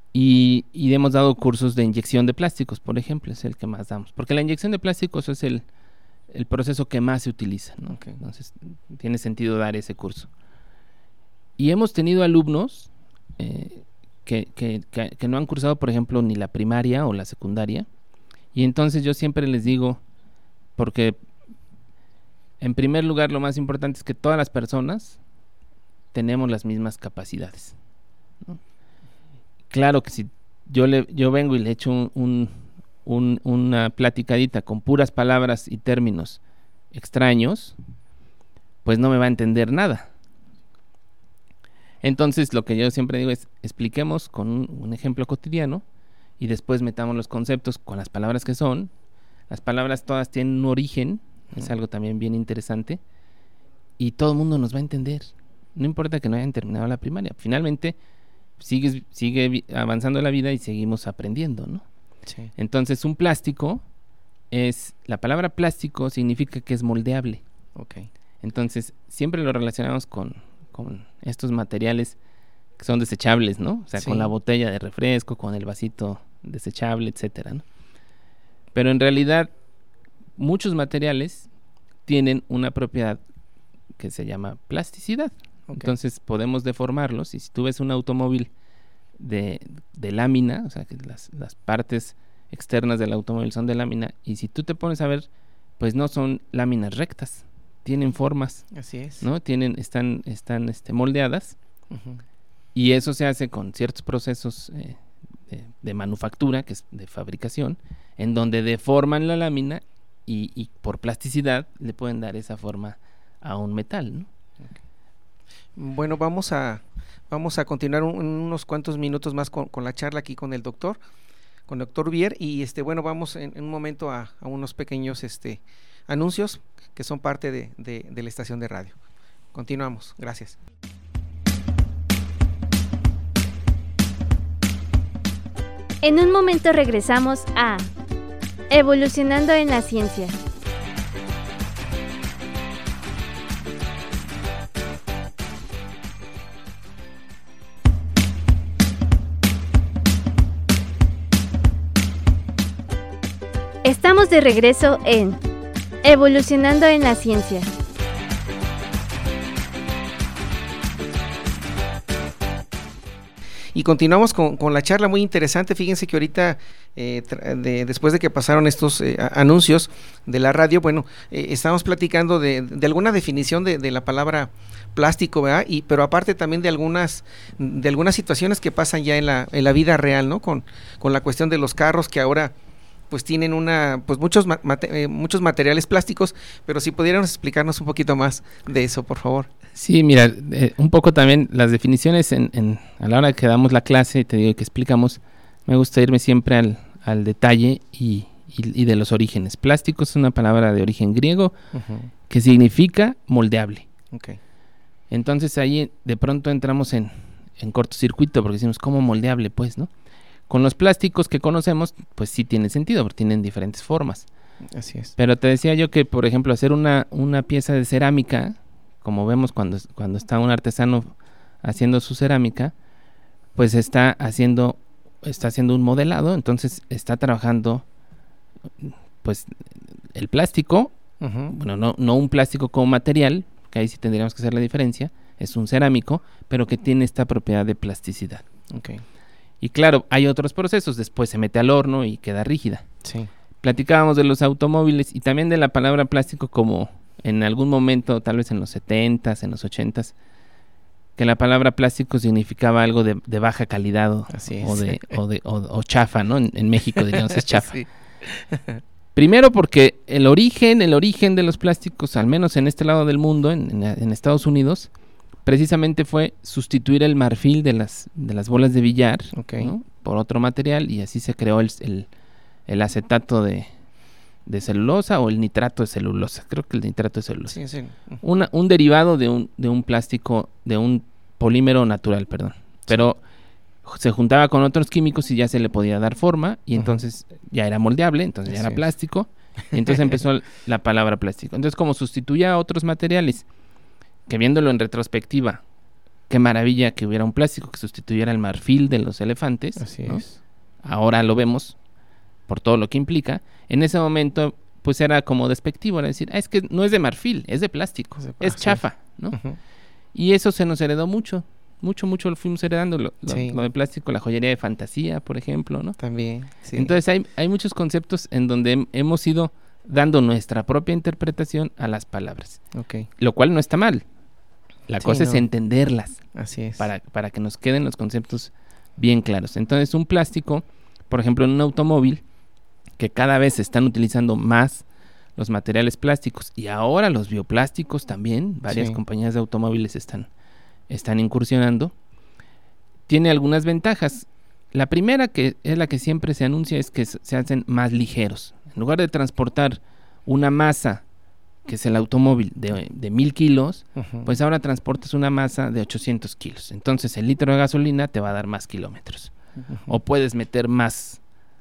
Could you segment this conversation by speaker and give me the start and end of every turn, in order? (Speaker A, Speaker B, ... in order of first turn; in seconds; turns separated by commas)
Speaker A: 0.1-5.6, Speaker A: 6.3-10.3, Speaker B: 7.9-8.2, Speaker A: 11.6-17.9, Speaker A: 18.5-20.0, Speaker A: 20.8-21.2, Speaker A: 22.6-25.2, Speaker A: 26.1-27.8, Speaker A: 29.7-36.4, Speaker A: 36.9-37.8, Speaker A: 38.9-40.1, Speaker A: 42.0-45.8, Speaker A: 46.4-48.9, Speaker A: 49.5-53.0, Speaker A: 54.0-58.0, Speaker A: 58.6-61.8, Speaker B: 62.2-62.5, Speaker A: 62.5-63.8, Speaker A: 64.5-67.4, Speaker B: 67.8-68.1, Speaker A: 68.4-72.2, Speaker A: 72.8-77.6, Speaker B: 74.0-74.3, Speaker A: 78.7-79.5, Speaker A: 80.4-81.5, Speaker A: 82.0-83.2, Speaker A: 84.0-88.5, Speaker A: 89.2-95.3, Speaker A: 95.8-98.6, Speaker B: 98.7-99.2, Speaker A: 99.2-101.5, Speaker B: 101.9-102.2, Speaker A: 102.7-114.3, Speaker B: 115.8-121.0, Speaker B: 121.7-128.9, Speaker B: 129.5-130.6, Speaker C: 136.0-137.9, Speaker C: 138.7-140.3, Speaker C: 153.8-155.4, Speaker C: 156.0-157.7, Speaker B: 163.7-182.5, Speaker B: 183.1-189.5, Speaker A: 189.8-201.5, Speaker B: 201.7-202.1, Speaker A: 202.3-203.9, Speaker B: 204.1-204.4, Speaker A: 205.1-209.9, Speaker A: 210.5-214.3, Speaker B: 214.7-215.1, Speaker A: 215.2-222.7, Speaker A: 223.6-227.8, Speaker A: 228.8-230.9, Speaker B: 231.2-231.5, Speaker A: 231.5-238.4, Speaker B: 238.7-239.0, Speaker A: 239.6-242.9, Speaker B: 243.0-243.3, Speaker A: 243.6-250.1, Speaker A: 251.2-257.8, Speaker B: 254.3-255.2, Speaker B: 256.9-258.8, Speaker A: 259.1-264.9, Speaker A: 265.4-272.1, Speaker B: 269.3-269.7, Speaker A: 272.7-273.7, Speaker A: 274.4-277.6, Speaker B: 277.5-278.2, Speaker A: 278.2-283.2, Speaker A: 283.8-293.4, Speaker B: 286.8-287.0, Speaker B: 288.5-288.8, Speaker B: 289.9-290.2, Speaker A: 294.3-295.6, Speaker A: 296.3-300.2, Speaker B: 299.8-300.4, Speaker A: 300.8-301.8, Speaker A: 302.5-309.4, Speaker B: 308.2-309.6, Speaker A: 310.1-316.0, Speaker B: 313.3-313.6, Speaker B: 316.0-316.9, Speaker A: 316.7-322.6, Speaker B: 322.7-323.1, Speaker A: 323.2-324.0, Speaker A: 324.9-326.2, Speaker B: 325.0-325.4, Speaker B: 326.4-326.8, Speaker A: 326.8-332.2, Speaker A: 333.0-334.8, Speaker A: 335.4-340.3, Speaker B: 338.7-339.0, Speaker A: 340.9-341.9, Speaker A: 343.1-351.0, Speaker A: 351.6-359.3, Speaker B: 354.0-354.3, Speaker B: 359.6-359.9, Speaker A: 359.9-361.2